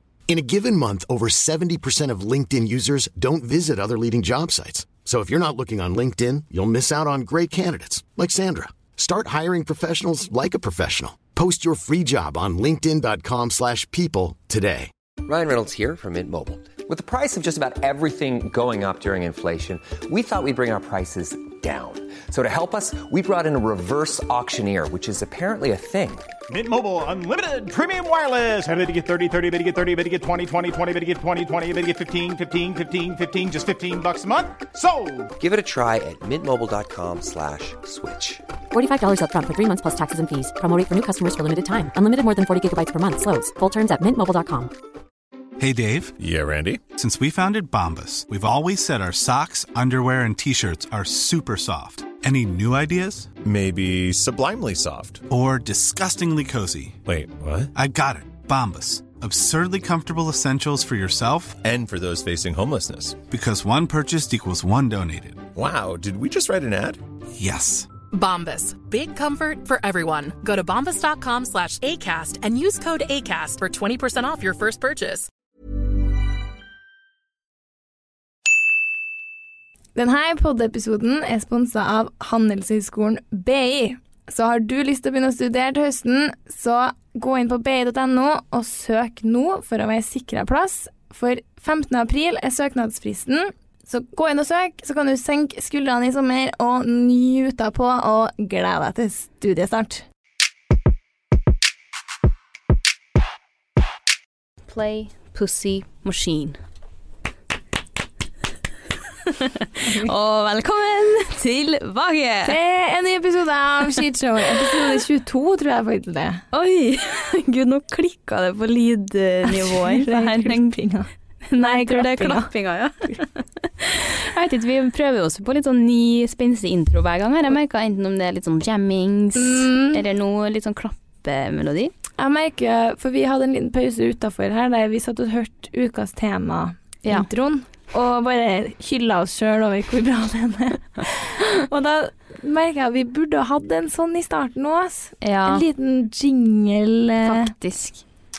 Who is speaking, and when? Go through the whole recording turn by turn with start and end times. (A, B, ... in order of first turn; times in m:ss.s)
0:00.3-0:14.9 A
0:15.2-0:26.3 B
0:26.5-0:35.3 C
0:35.4-0:38.4 B
0:38.7-0:44.7 D
0:45.6-0:46.1 E
0:46.2-0:46.8 F
0:47.0-0:53.3 E
0:53.4-0:55.2 F
0:55.3-0:57.0 E
0:57.0-0:57.7 F
0:57.7-1:01.6 E
1:01.6-1:03.2 F
1:03.3-1:05.4 E
1:05.6-1:07.0 F
1:07.4-1:07.9 E
1:08.1-1:15.3 G
1:19.9-1:40.0 H
1:44.7-1:46.6 I
1:49.3-1:52.6 I
1:49.9-1:50.1 H
1:52.4-1:56.4 H
1:56.5-2:00.8 I
1:59.4-2:02.5 H
2:01.5-2:03.3 I
2:03.8-2:11.9 I
2:09.3-2:10.0 H
2:12.2-2:27.5 H
2:25.2-2:25.6 I
2:27.2-2:28.0 I